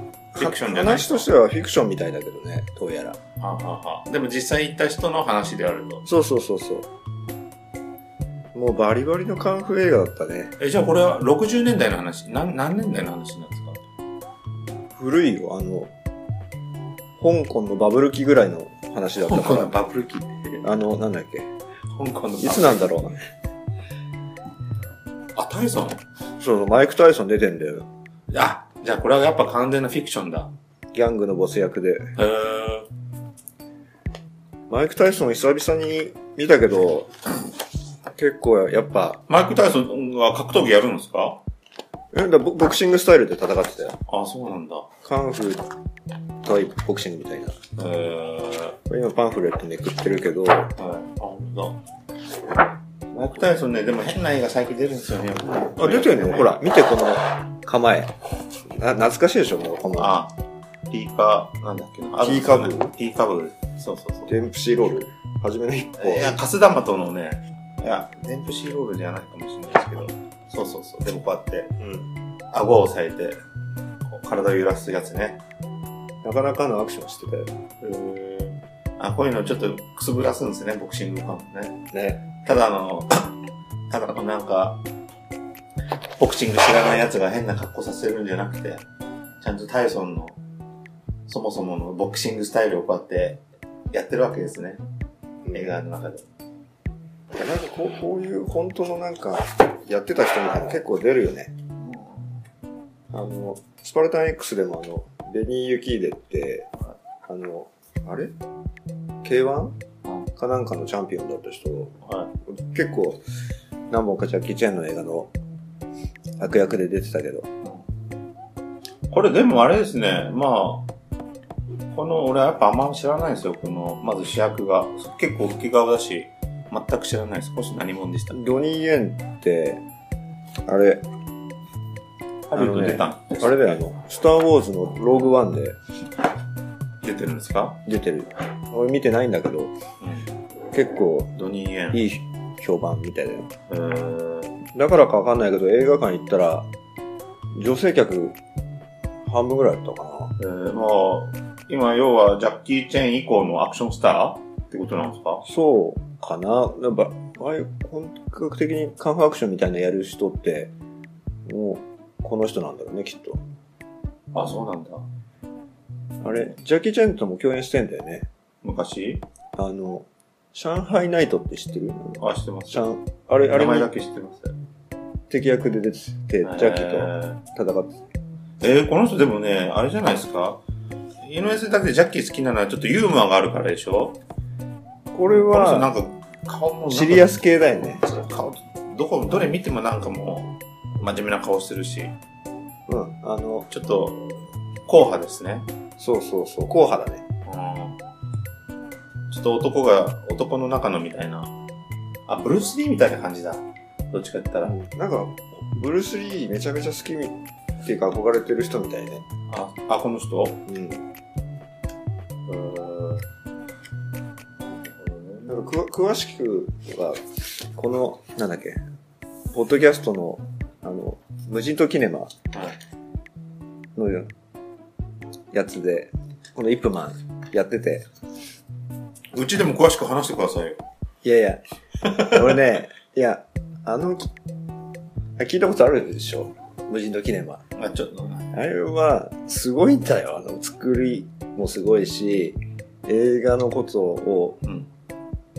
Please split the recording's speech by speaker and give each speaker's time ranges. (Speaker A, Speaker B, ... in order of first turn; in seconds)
Speaker A: 0.3-3.2, 6.0-6.9, 8.5-10.5, 14.9-15.9, 17.2-19.8, 20.6-21.5, 22.4-23.2, 26.4-27.9, 30.9-32.1, 34.7-37.1, 38.0-39.2, 42.1-44.0, 45.0-45.6, 46.4-47.6, 48.9-50.7, 55.8-58.1, 58.7-60.1, 62.2-62.9, 64.3-66.4, 71.8-72.1, 76.2-77.5, 81.9-82.2, 95.4-95.8, 97.3-101.5, 103.1-106.7, 107.3-108.3, 109.2-109.8, 110.3-111.9, 112.5-113.2, 113.9-115.3, 116.4-117.5, 128.3-129.8, 130.7-131.1, 132.5-135.8, 137.8-139.7, 140.7-141.3, 141.9-143.5, 144.7-146.7, 147.5-148.4, 149.2-150.3, 155.4-160.7, 161.4-163.4, 166.2-168.3, 169.6-173.9, 175.3-178.0, 185.1-185.9, 186.9-188.0, 192.9-193.7, 196.0-197.2, 204.6-209.2, 210.7-211.0, 215.5-217.2, 217.7-218.8, 219.5-222.3, 223.9-224.3, 225.5-228.1, 231.2-231.6, 232.2-234.3, 235.4-237.6, 238.5-244.6
Speaker B: 0.3-1.3, 3.4-6.0, 10.6-13.8, 19.3-20.7, 21.9-23.2, 25.4-26.0, 28.3-30.5, 32.1-32.9, 39.3-41.4, 44.1-44.9, 47.8-48.8, 50.8-51.8, 53.1-56.6, 60.0-60.3, 60.9-64.4, 66.0-71.7, 72.5-73.4, 74.0-75.4, 77.8-81.8, 82.4-83.4, 83.9-84.8, 86.2-88.8, 89.4-90.4, 91.3-94.8, 95.5-96.2, 101.8-102.2, 112.0-112.3, 119.1-120.9, 121.9-128.4, 132.5-133.7, 137.0-137.8, 140.0-140.3, 141.3-142.0, 143.7-144.5, 150.4-155.4, 164.3-165.0, 166.2-166.5, 168.6-169.2, 172.2-172.9, 173.4-174.5, 176.4-177.4, 178.6-180.6, 181.2-184.2, 185.2-187.4, 187.9-192.1, 193.7-195.7, 197.4-198.0, 199.3-201.5, 202.3-204.8, 209.5-210.6, 212.5-213.2, 214.7-215.6, 229.3-230.8, 237.8-238.5, 244.6-244.9